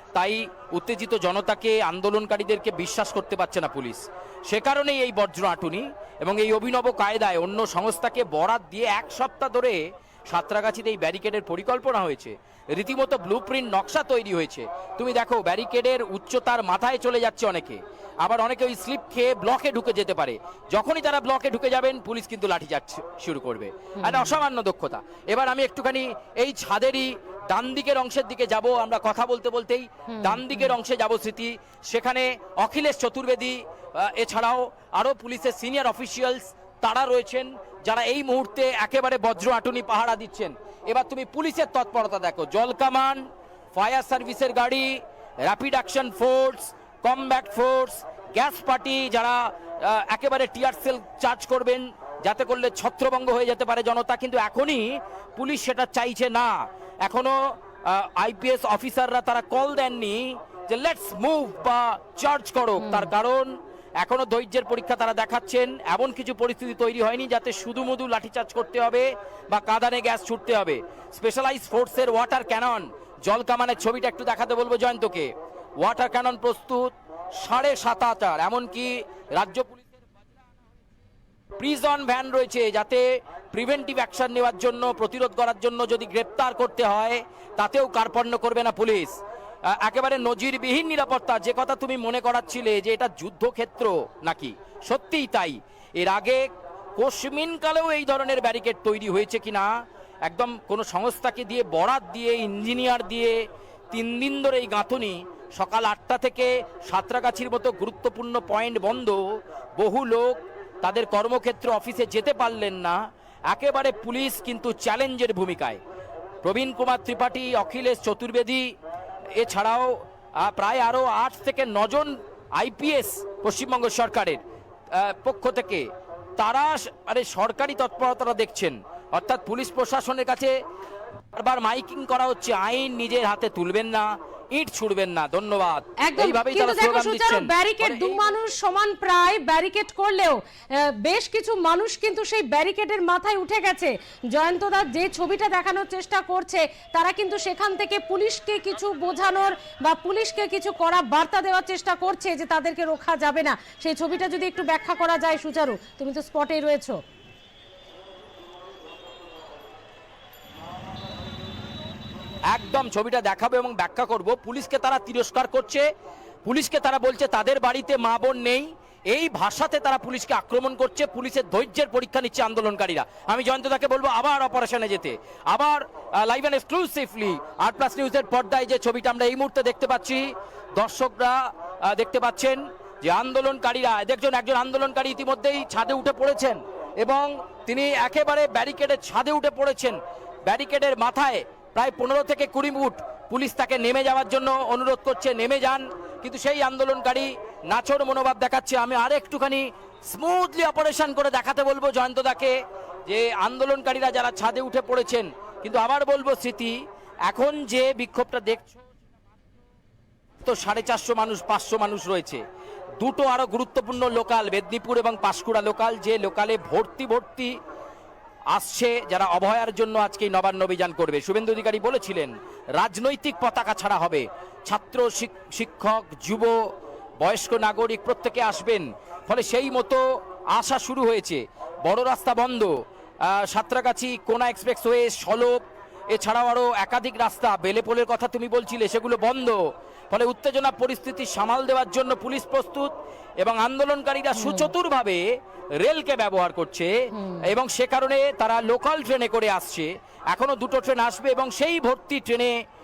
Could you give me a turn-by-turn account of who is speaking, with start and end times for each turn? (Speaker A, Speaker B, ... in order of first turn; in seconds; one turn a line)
Speaker A: 0.1-43.2
Speaker B: 24.0-24.4
Speaker B: 30.1-30.8
Speaker A: 43.8-75.3
Speaker B: 62.8-63.1
Speaker A: 75.8-76.9
Speaker A: 77.4-79.8
Speaker A: 81.6-89.2
Speaker A: 89.7-99.7
Speaker A: 100.3-103.4
Speaker A: 103.9-109.2
Speaker A: 109.8-113.0
Speaker A: 113.5-115.8
Speaker A: 116.4-118.7
Speaker A: 119.4-124.4
Speaker A: 124.9-125.9
Speaker A: 126.4-130.5
Speaker A: 131.3-138.3
Speaker B: 136.0-157.0
Speaker A: 162.5-165.9
Speaker A: 166.5-208.8
Speaker A: 210.4-212.4
Speaker A: 213.0-217.5
Speaker A: 218.5-226.6
Speaker A: 227.2-232.7
Speaker A: 233.3-235.6
Speaker A: 236.1-239.6
Speaker A: 240.1-245.2
Speaker B: 244.3-244.7
Speaker A: 245.8-246.9
Speaker B: 247.1-247.5
Speaker A: 247.4-252.5